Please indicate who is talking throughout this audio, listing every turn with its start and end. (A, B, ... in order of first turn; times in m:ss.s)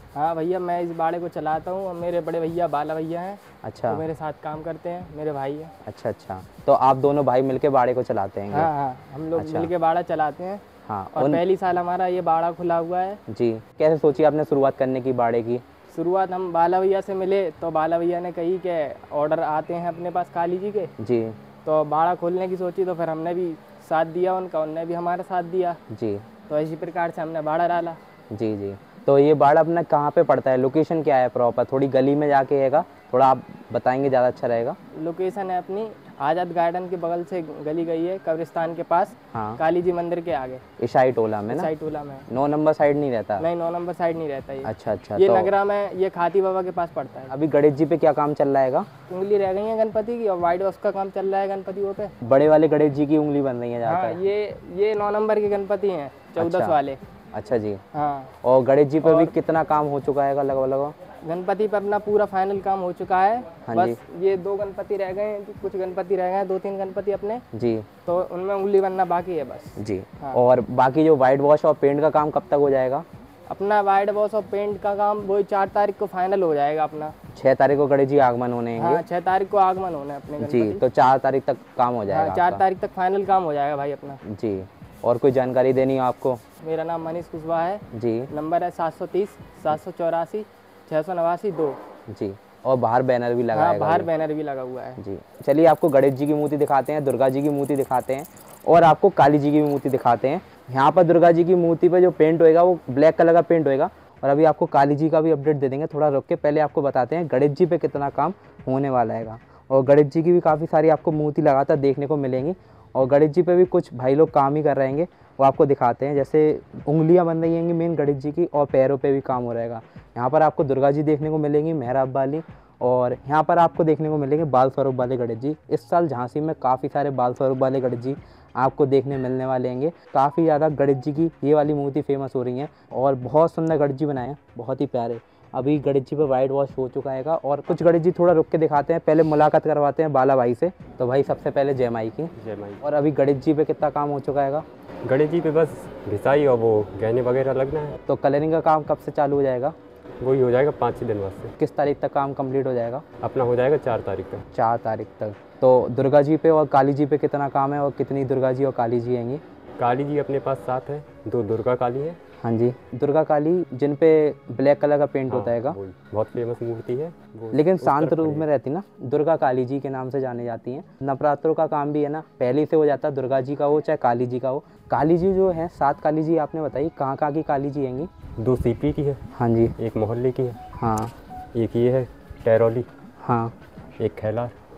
0:00.2-0:05.7 A
0:03.6-0:04.0 B
0:05.9-0:08.7 B
0:08.5-0:10.6 A
0:09.4-0:09.7 B
0:10.9-0:11.4 B
0:11.2-0:13.2 A
0:13.3-0:15.6 B
0:15.9-0:20.9 A
0:21.0-0:21.4 B
0:21.6-0:25.8 A
0:25.9-0:26.2 B
0:26.5-0:28.0 A
0:28.3-0:34.8 B
0:35.0-0:40.6 A
0:39.3-0:39.6 B
0:40.8-0:41.7 B
0:41.5-0:42.3 A
0:42.3-0:43.5 B
0:43.4-0:47.3 A
0:44.6-0:45.5 B
0:47.3-0:48.9 B
0:49.1-0:52.1 A
0:52.2-0:54.2 B
0:53.8-0:57.0 A
0:56.4-0:56.8 B
0:57.3-0:57.8 B
0:57.9-0:58.3 A
0:58.4-1:01.0 B
0:59.0-0:59.3 A
1:01.2-1:07.4 A
1:03.7-1:04.0 B
1:07.5-1:07.9 B
1:08.1-1:10.4 A
1:09.8-1:13.0 B
1:13.5-1:17.1 A
1:17.3-1:19.0 B
1:18.8-1:20.8 A
1:20.4-1:22.6 B
1:22.1-1:24.2 A
1:24.2-1:26.4 B
1:26.6-1:31.8 A
1:27.9-1:28.3 B
1:32.1-1:34.1 B
1:33.5-1:35.0 A
1:35.0-2:24.6 B
2:22.4-2:22.8 C
2:25.0-2:28.0 C
2:28.1-2:29.8 B
2:30.2-2:31.5 C
2:31.6-2:33.0 B
2:33.2-2:34.4 C
2:34.5-2:39.4 B
2:39.8-2:42.2 C
2:42.4-2:45.8 B
2:45.3-2:48.5 C
2:47.5-2:58.1 B
2:58.4-2:59.2 C
2:59.4-2:59.8 B
2:59.8-3:00.6 C
3:00.8-3:01.1 B
3:01.5-3:02.9 C
3:03.2-3:03.5 B
3:04.0-3:04.5 C